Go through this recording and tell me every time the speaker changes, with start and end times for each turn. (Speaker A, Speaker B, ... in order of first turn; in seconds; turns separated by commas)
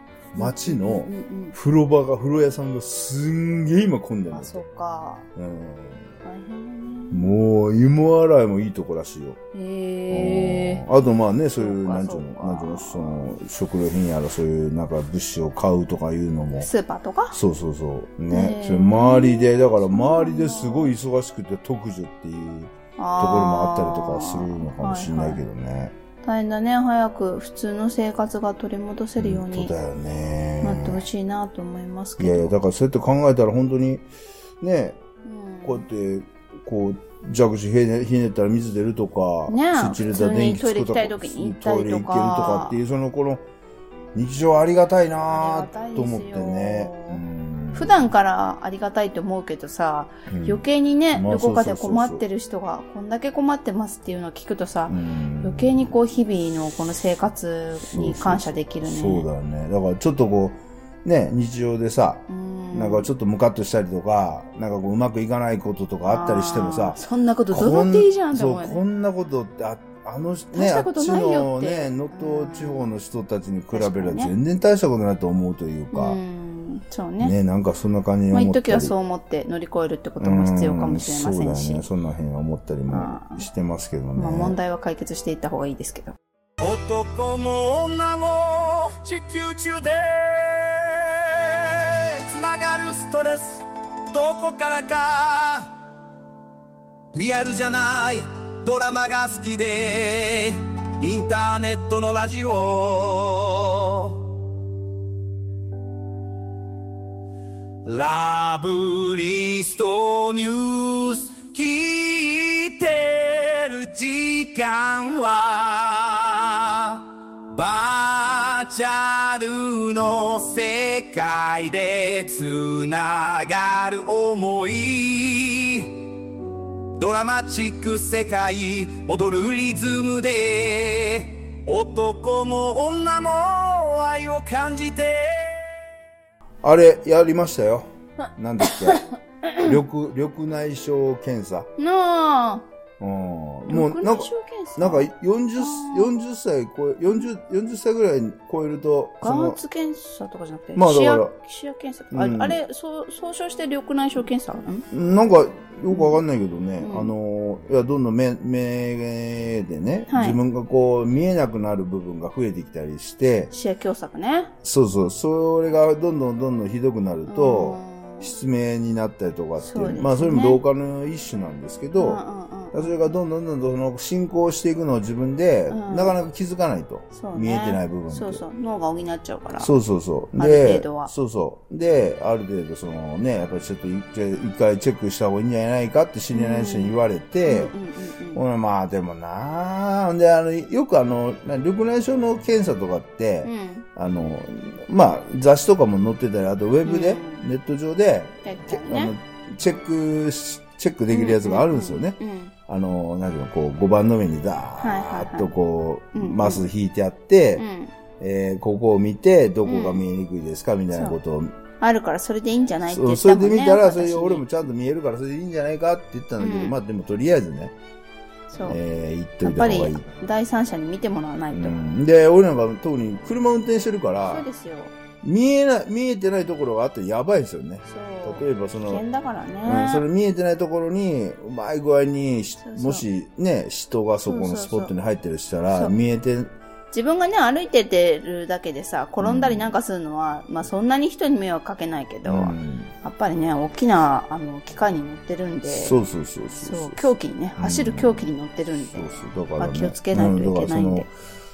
Speaker A: 0.3-4.6, Speaker B: 0.4-1.6, Speaker B: 4.3-5.3, Speaker A: 5.3-6.1, Speaker B: 6.2-7.3, Speaker A: 7.1-9.4, Speaker B: 9.5-10.9, Speaker A: 10.1-16.7, Speaker B: 11.6-13.4, Speaker B: 16.6-17.4, Speaker A: 17.3-25.9, Speaker B: 18.3-20.9, Speaker B: 23.0-25.4, Speaker B: 26.2-29.7, Speaker A: 29.2-31.0, Speaker B: 30.6-32.5, Speaker A: 32.2-34.1, Speaker A: 34.6-35.0, Speaker B: 35.2-35.9, Speaker A: 35.6-43.4, Speaker B: 39.5-42.8, Speaker A: 44.1-48.1, Speaker B: 45.3-47.2, Speaker B: 47.7-59.3, Speaker A: 50.3-52.2, Speaker A: 54.9-55.8, Speaker A: 57.9-67.0, Speaker B: 62.3-63.1, Speaker B: 66.1-68.8, Speaker A: 67.5-76.2, Speaker B: 70.5-72.9, Speaker B: 73.7-74.3, Speaker B: 75.9-77.3, Speaker A: 77.2-78.9, Speaker B: 78.3-81.9, Speaker A: 80.2-84.6, Speaker B: 82.9-83.5, Speaker B: 84.2-86.2, Speaker C: 86.6-95.8, Speaker C: 97.1-104.3, Speaker C: 107.8-126.1, Speaker C: 126.9-135.8, Speaker A: 136.6-139.0, Speaker B: 138.6-139.8, Speaker A: 139.6-141.7, Speaker B: 141.8-142.7, Speaker A: 143.0-149.6, Speaker B: 143.7-146.1, Speaker B: 149.2-154.9, Speaker A: 150.8-151.4, Speaker A: 152.1-152.6, Speaker A: 154.9-163.5, Speaker B: 155.9-156.2, Speaker B: 156.8-157.1, Speaker B: 160.1-160.4, Speaker B: 163.5-164.5, Speaker A: 164.6-172.2, Speaker B: 167.3-168.3, Speaker B: 169.6-170.6, Speaker B: 172.0-173.0, Speaker A: 172.7-178.4, Speaker B: 175.7-176.2, Speaker B: 177.1-179.7, Speaker A: 179.6-187.7, Speaker B: 180.4-181.1, Speaker B: 186.3-188.4, Speaker A: 188.3-207.7, Speaker B: 193.4-193.9, Speaker B: 196.8-197.5, Speaker B: 198.4-199.1, Speaker B: 201.1-202.5, Speaker B: 204.8-205.5, Speaker B: 206.1-206.7, Speaker B: 207.6-207.9, Speaker A: 208.2-211.6, Speaker B: 209.7-210.0, Speaker B: 210.9-211.2, Speaker B: 211.8-214.6, Speaker A: 212.9-217.8, Speaker B: 216.4-216.7, Speaker B: 218.5-218.8, Speaker A: 218.7-220.1, Speaker B: 219.4-221.8, Speaker A: 221.5-224.5, Speaker B: 224.3-224.9, Speaker A: 225.2-229.0, Speaker B: 227.9-230.1, Speaker A: 229.7-236.5, Speaker B: 232.6-233.1, Speaker B: 234.3-234.9, Speaker B: 236.9-246.0, Speaker A: 239.2-239.7, Speaker A: 242.2-242.9, Speaker A: 245.7-248.3, Speaker B: 246.6-251.1, Speaker A: 248.8-251.1